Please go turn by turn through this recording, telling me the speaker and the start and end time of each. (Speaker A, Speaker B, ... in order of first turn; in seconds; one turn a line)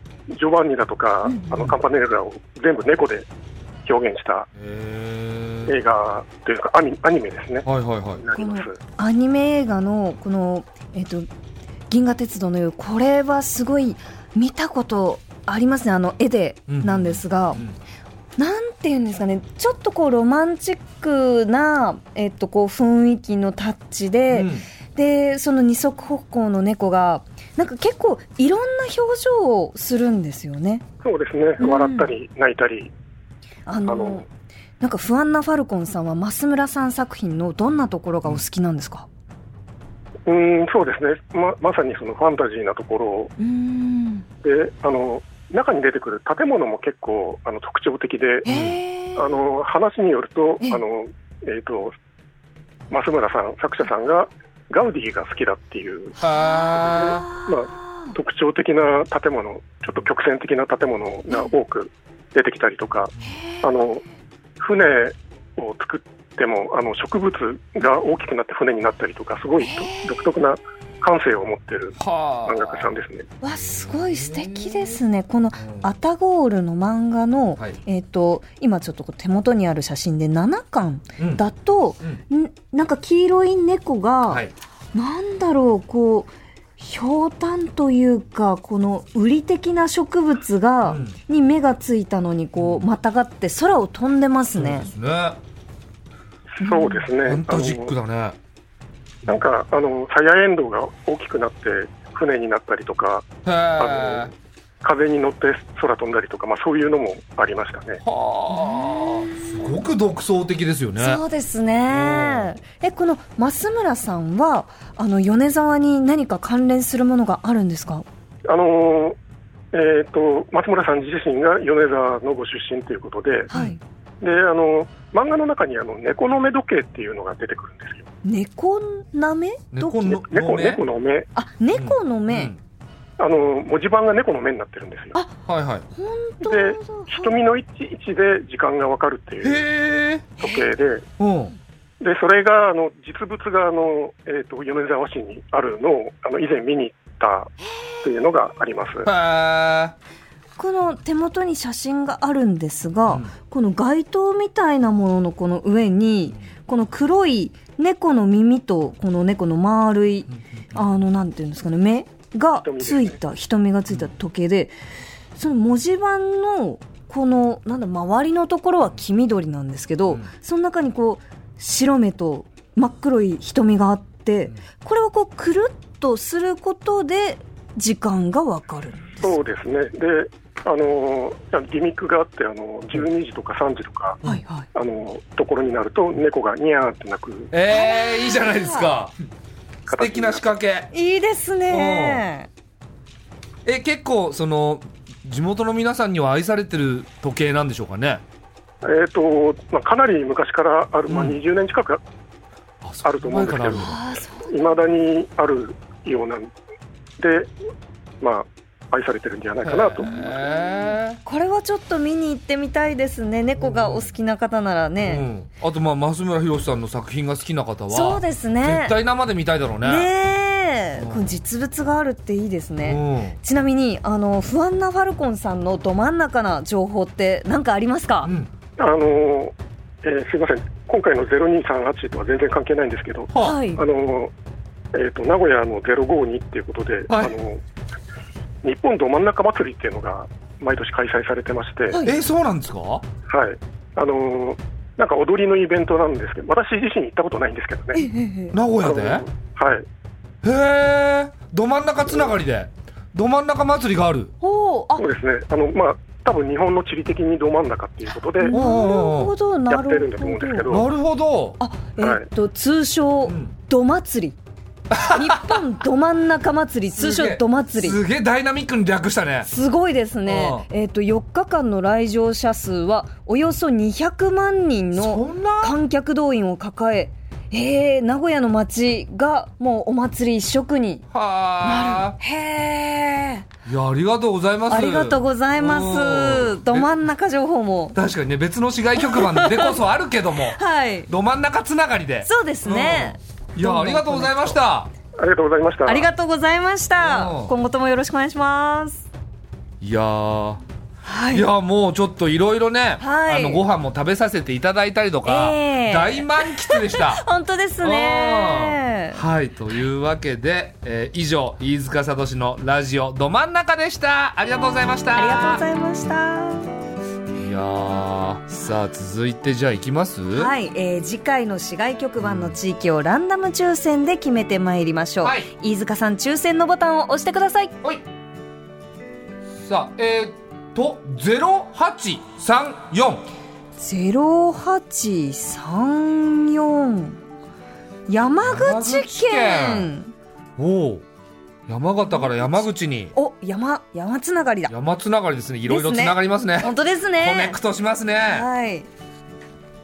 Speaker A: 0.3-3.3
Speaker B: 1.2-1.7
Speaker A: 3.9-4.5
Speaker C: 4.6-5.7
Speaker A: 5.7-8.8
Speaker C: 7.6-8.2
Speaker B: 8.3-11.3
Speaker B: 11.9-17.6
Speaker C: 16.7-17.8
Speaker B: 18.4-30.8
Speaker C: 24.3-24.7
Speaker A: 31.0-32.9
Speaker B: 31.6-32.1
Speaker B: 33.7-34.2
Speaker A: 33.9-34.2
Speaker B: 34.8-39.1
Speaker A: 40.2-43.3
Speaker B: 43.4-44.2
Speaker A: 44.4-48.5
Speaker B: 48.4-49.3
Speaker C: 48.5-48.8
Speaker A: 49.1-51.9
Speaker A: 52.9-56.2
Speaker C: 56.2-57.3
Speaker B: 56.2-58.1
Speaker A: 56.9-64.0
Speaker B: 63.2-63.6
Speaker A: 64.6-73.3
Speaker B: 69.6-70.2
Speaker C: 72.0-72.9
Speaker B: 73.4-94.9
Speaker C: 73.5-75.0
Speaker C: 75.6-75.9
Speaker C: 90.8-91.2
Speaker C: 92.6-92.9
Speaker C: 94.5-95.4
Speaker A: 96.6-97.9
Speaker B: 96.6-97.1
Speaker C: 97.2-98.4
Speaker A: 99.2-104.3
Speaker C: 103.4-104.3
Speaker A: 104.8-108.0
Speaker C: 108.0-111.2
Speaker B: 108.5-109.7
Speaker B: 111.0-118.0
Speaker C: 111.9-112.5
Speaker A: 118.5-119.2
Speaker A: 119.7-123.5
Speaker C: 123.5-123.8
Speaker B: 123.5-123.8
Speaker A: 124.2-128.1
Speaker B: 128.2-130.2
Speaker C: 129.7-130.8
Speaker A: 130.3-131.3
Speaker B: 131.3-132.5
Speaker C: 131.7-132.6
Speaker A: 133.2-135.2
Speaker C: 135.4-135.9
Speaker B: 135.9-137.3
Speaker A: 136.4-139.7
Speaker C: 139.4-140.3
Speaker A: 140.4-141.1
Speaker C: 141.2-141.5
Speaker A: 142.0-147.5
Speaker A: 148.0-149.1
Speaker C: 149.0-149.9
Speaker B: 150.6-164.7
Speaker A: 162.6-163.2
Speaker B: 165.3-179.3
Speaker A: 179.2-184.2
Speaker B: 184.2-184.7
Speaker A: 184.7-187.5
Speaker C: 187.5-189.1
Speaker B: 187.7-188.9
Speaker C: 189.9-190.9
Speaker A: 189.9-190.4
Speaker B: 190.9-192.5
Speaker C: 191.7-192.2
Speaker C: 193.6-198.2
Speaker A: 198.8-202.0
Speaker C: 201.1-201.4
Speaker C: 202.8-204.2
Speaker A: 203.0-206.5
Speaker B: 203.7-204.5
Speaker A: 207.2-207.5
Speaker A: 208.2-210.2
Speaker C: 209.6-211.2
Speaker B: 210.1-215.2
Speaker C: 213.6-214.1
Speaker C: 215.0-220.1
Speaker B: 217.9-219.0
Speaker B: 219.8-228.3
Speaker C: 221.0-221.3
Speaker C: 222.8-223.4
Speaker C: 228.2-228.5
Speaker A: 228.8-234.3
Speaker B: 233.4-233.8
Speaker A: 234.9-237.6
Speaker C: 237.1-237.3
Speaker A: 238.6-242.0
Speaker C: 242.0-243.0
Speaker A: 243.3-248.0
Speaker B: 247.9-248.6
Speaker C: 248.5-249.2
Speaker A: 248.8-249.8
Speaker C: 250.4-254.3
Speaker B: 254.4-255.0
Speaker A: 255.0-258.6
Speaker B: 258.4-260.7
Speaker C: 258.5-259.3
Speaker A: 259.7-260.9
Speaker C: 260.7-261.6
Speaker B: 261.6-264.4
Speaker A: 262.0-262.2
Speaker C: 263.2-263.5
Speaker C: 264.9-265.6
Speaker B: 265.0-268.0
Speaker C: 266.9-269.5
Speaker B: 269.4-281.1
Speaker C: 270.2-270.6
Speaker C: 274.9-275.8
Speaker C: 281.1-282.2
Speaker B: 281.6-283.4
Speaker C: 283.6-286.9
Speaker B: 284.7-287.9
Speaker C: 287.9-294.9
Speaker B: 288.9-289.8
Speaker B: 290.5-291.1
Speaker B: 292.2-294.6
Speaker A: 295.2-296.1
Speaker B: 295.9-299.1
Speaker C: 297.0-297.5
Speaker C: 299.8-300.6
Speaker B: 301.0-301.5
Speaker C: 301.3-307.2
Speaker B: 303.0-303.6
Speaker B: 305.2-309.2
Speaker C: 307.8-315.6
Speaker B: 315.1-316.7
Speaker C: 317.3-320.5
Speaker B: 320.3-327.7
Speaker C: 322.2-322.6
Speaker C: 325.2-325.5
Speaker C: 329.6-333.2
Speaker B: 333.8-337.2
Speaker B: 338.1-340.1
Speaker C: 338.4-339.9
Speaker C: 340.6-341.0
Speaker C: 341.7-343.1
Speaker B: 342.1-344.7
Speaker C: 344.7-348.5
Speaker B: 345.7-347.6
Speaker B: 348.2-348.9